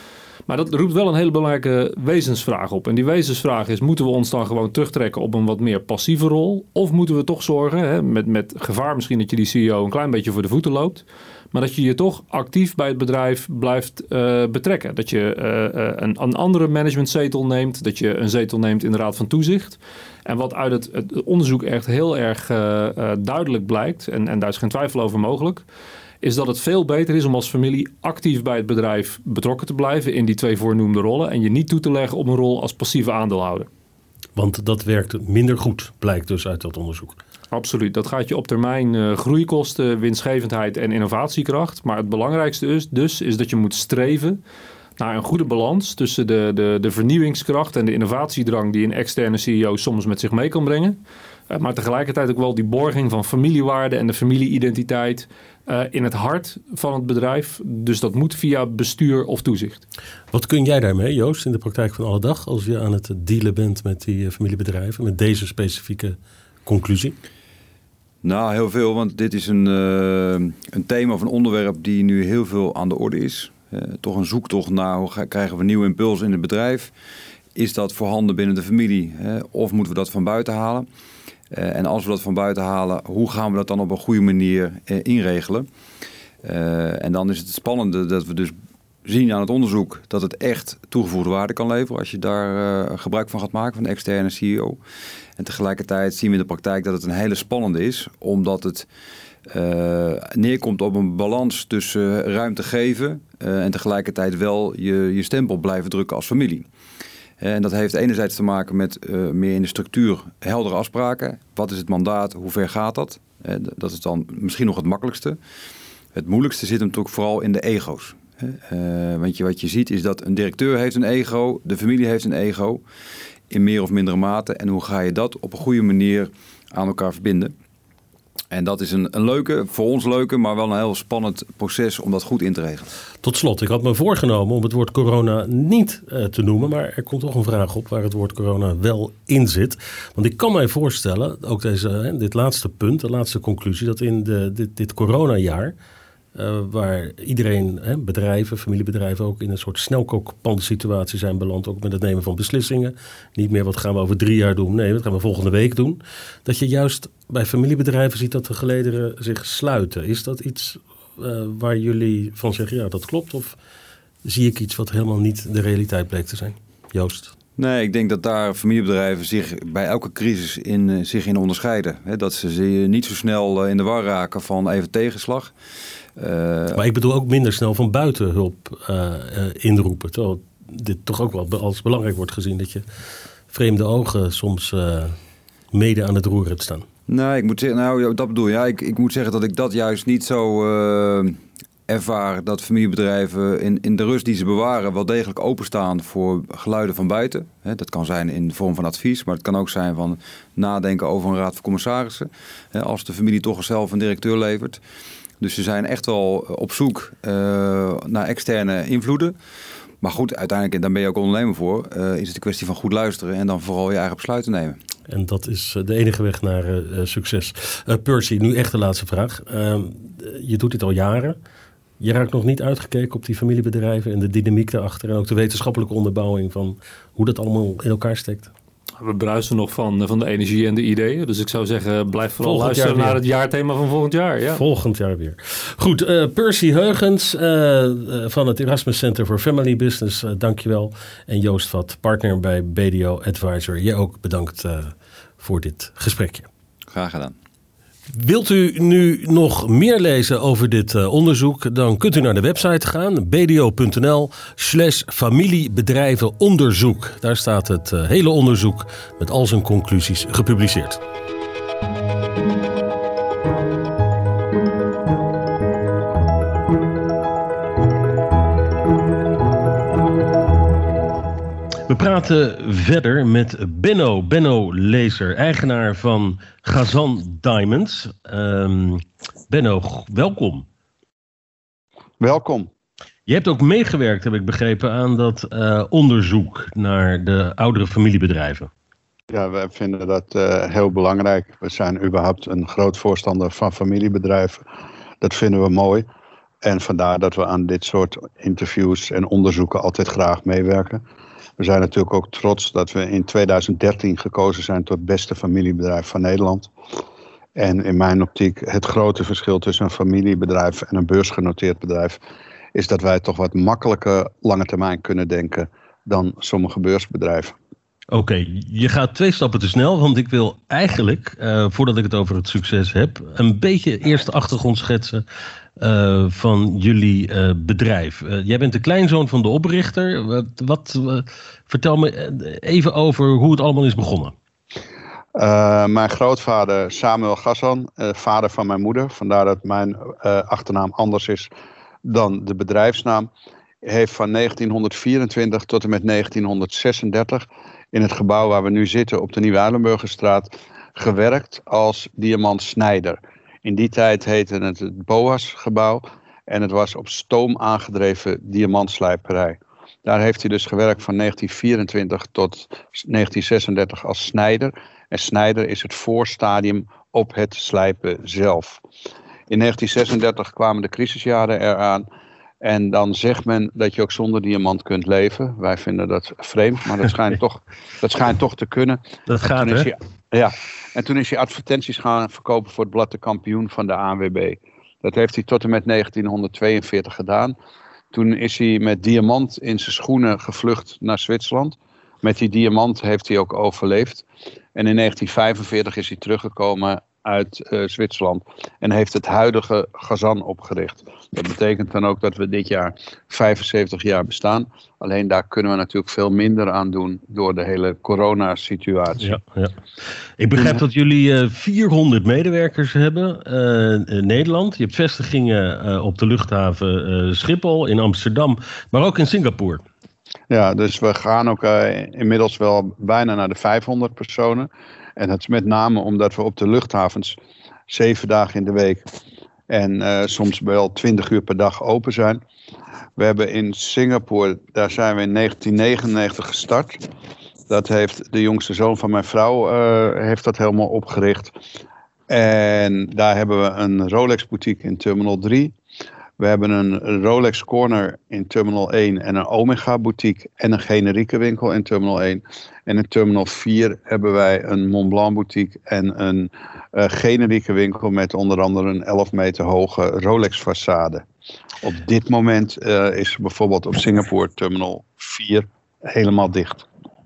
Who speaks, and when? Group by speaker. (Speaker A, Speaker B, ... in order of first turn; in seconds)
Speaker A: 0.5-25.6, 26.2-33.7, 37.5-44.4, 45.0-51.0, 51.5-59.8, 229.0-234.6
Speaker B: 34.4-37.2, 60.3-67.2, 133.2-145.8, 146.3-163.6, 164.2-167.3, 176.8-182.8, 183.5-185.2, 185.7-186.9, 215.1-221.4, 222.0-228.5, 232.4-233.2, 234.5-246.5, 248.1-261.0, 271.9-280.7, 283.3-288.7, 318.1-325.2, 325.8-334.3, 379.3-379.9, 409.2-409.8, 410.4-419.8
Speaker C: 68.2-76.9, 77.5-80.9, 81.5-85.7, 86.4-88.5, 89.0-94.8, 95.4-98.9, 99.5-106.7, 107.4-115.4, 116.1-122.8, 123.5-127.5, 128.5-132.9, 167.6-175.5, 176.2-176.8, 187.1-204.8, 205.4-209.3, 210.0-214.8, 246.9-247.4
Speaker D: 282.2-282.7, 289.3-294.6, 295.2-296.1, 296.6-301.0, 301.6-306.7, 307.6-312.2, 312.7-317.6, 335.4-341.5, 342.1-343.3, 343.8-368.8, 369.5-372.1, 372.6-379.0, 379.6-387.6, 388.1-409.4, 420.5-427.4, 427.9-429.0, 429.7-432.4, 433.2-437.1, 437.7-441.6, 442.3-445.8, 446.4-461.2, 461.8-466.9